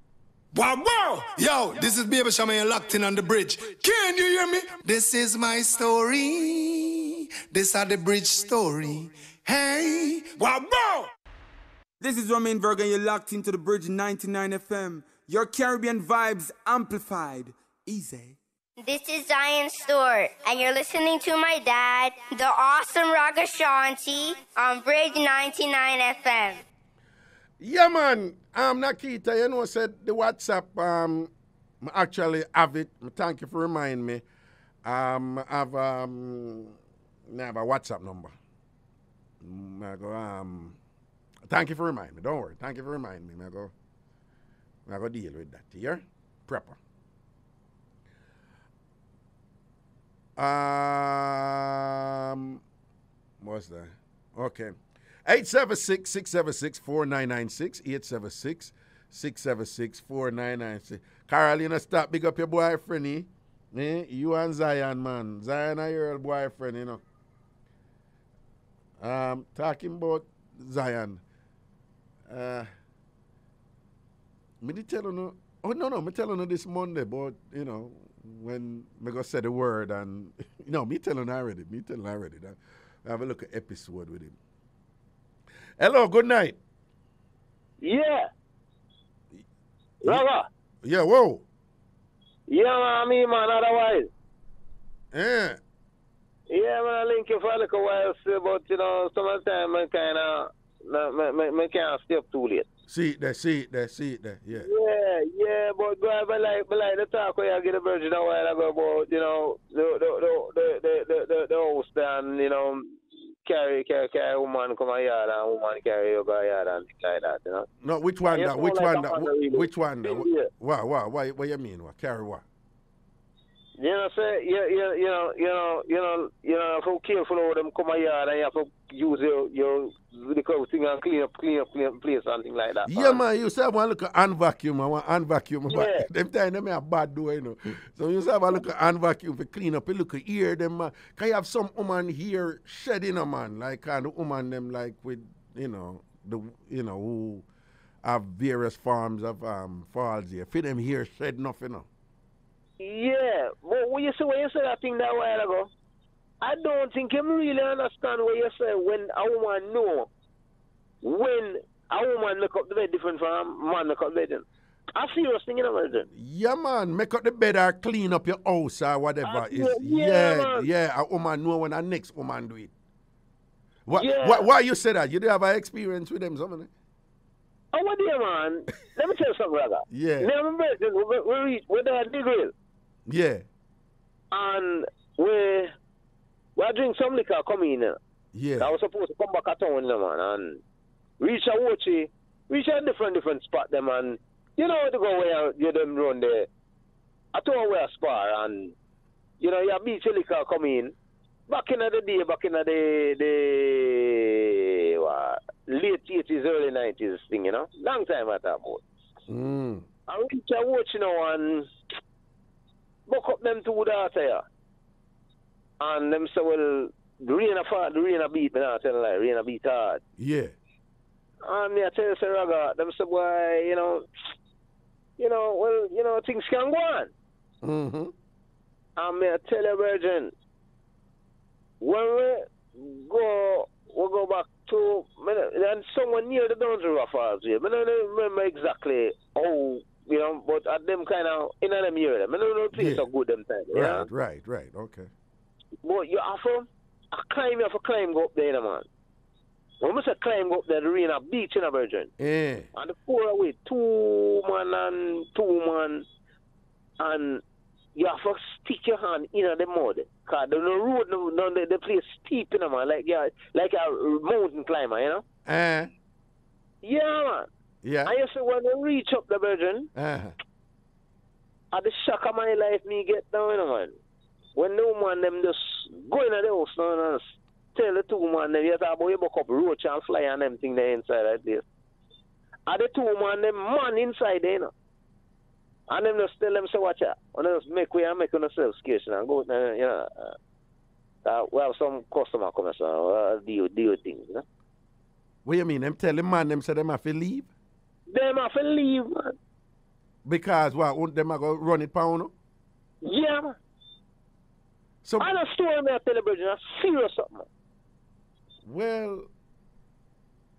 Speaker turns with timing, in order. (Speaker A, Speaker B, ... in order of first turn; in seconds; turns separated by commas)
Speaker A: 0.5-11.1, Speaker B: 12.0-18.4, Speaker C: 18.8-26.6, Speaker D: 27.6-31.3, Speaker D: 31.8-34.2, Speaker D: 34.8-36.7, Speaker D: 37.3-38.3, Speaker D: 39.4-40.8, Speaker D: 41.5-43.7, Speaker D: 44.9-46.8, Speaker D: 50.4-52.6, Speaker D: 53.4-54.8, Speaker D: 55.3-67.0, Speaker D: 69.0-71.2, Speaker D: 72.3-72.7, Speaker D: 74.6-84.4, Speaker D: 85.8-86.6, Speaker E: 87.8-88.3, Speaker E: 90.0-90.5, Speaker D: 90.8-91.4, Speaker E: 92.5-94.1, Speaker D: 95.1-95.6, Speaker E: 96.5-102.7, Speaker D: 102.9-104.7, Speaker E: 104.6-112.8, Speaker E: 113.5-117.7, Speaker D: 117.8-122.4, Speaker E: 118.3-120.5, Speaker E: 123.8-133.2, Speaker D: 132.9-147.4, Speaker E: 135.7-136.1, Speaker D: 148.0-151.9, Speaker E: 152.8-155.7, Speaker E: 156.4-160.1, Speaker E: 161.0-164.4, Speaker E: 165.0-166.1, Speaker D: 166.1-172.7, Speaker E: 169.2-170.7, Speaker D: 173.9-176.7, Speaker E: 174.0-174.5, Speaker E: 177.7-182.5, Speaker D: 179.9-180.3, Speaker D: 183.1-183.4, Speaker E: 184.3-185.7, Speaker E: 186.6-188.0, Speaker D: 188.3-188.7, Speaker E: 188.6-190.6, Speaker E: 191.2-196.5, Speaker E: 197.3-198.7, Speaker E: 199.4-200.9, Speaker E: 201.5-208.8, Speaker D: 209.3-209.9, Speaker E: 210.1-211.7, Speaker E: 213.1-214.4, Speaker E: 215.8-220.0, Speaker D: 220.2-220.5, Speaker E: 221.4-224.1, Speaker E: 225.2-227.1, Speaker D: 227.6-228.1, Speaker E: 229.0-230.3, Speaker E: 231.8-244.1, Speaker D: 242.7-243.1, Speaker D: 243.7-245.1, Speaker E: 245.8-248.9, Speaker E: 249.8-252.1, Speaker D: 252.2-252.7, Speaker E: 252.8-256.1, Speaker E: 257.0-257.4, Speaker E: 258.0-265.2, Speaker D: 265.5-265.9, Speaker E: 266.8-267.5, Speaker D: 267.8-268.1, Speaker E: 268.1-269.9, Speaker D: 270.0-270.3, Speaker E: 271.7-273.9, Speaker E: 274.6-277.2, Speaker E: 277.8-281.6, Speaker E: 282.7-284.7, Speaker E: 285.9-290.4, Speaker E: 291.2-294.4, Speaker D: 295.4-297.5, Speaker E: 298.1-299.3, Speaker D: 300.2-302.3, Speaker E: 303.1-303.4, Speaker D: 305.0-305.3, Speaker E: 305.2-307.5, Speaker D: 308.6-309.3